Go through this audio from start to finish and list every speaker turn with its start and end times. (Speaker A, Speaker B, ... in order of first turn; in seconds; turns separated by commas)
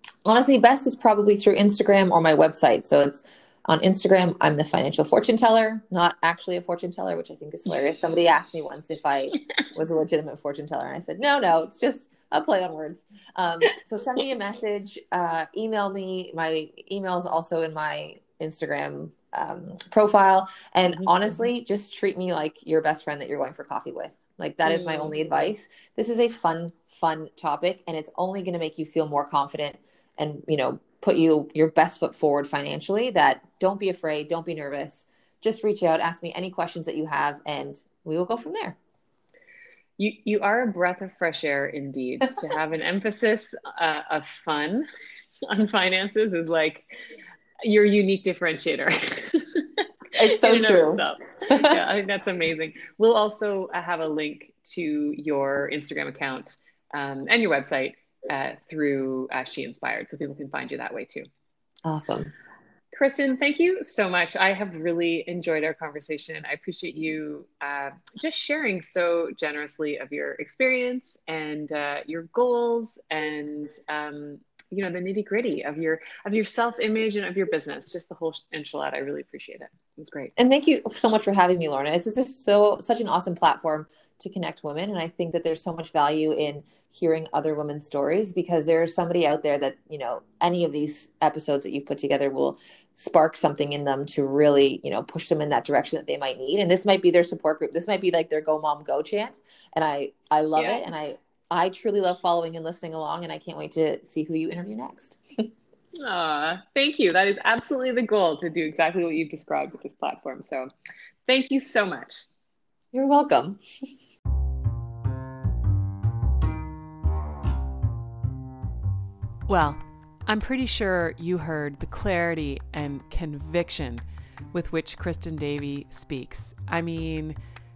Speaker A: 0.2-38.8, Speaker B: 20.9-21.4, Speaker B: 24.6-25.1, Speaker B: 40.0-44.9, Speaker B: 45.5-47.0, Speaker B: 47.6-61.3, Speaker A: 50.1-51.8, Speaker A: 61.9-62.3, Speaker B: 62.9-80.3, Speaker A: 80.4-105.5, Speaker B: 100.5-100.8, Speaker B: 106.0-110.7, Speaker B: 111.3-112.3, Speaker A: 112.9-113.6, Speaker C: 119.5-127.4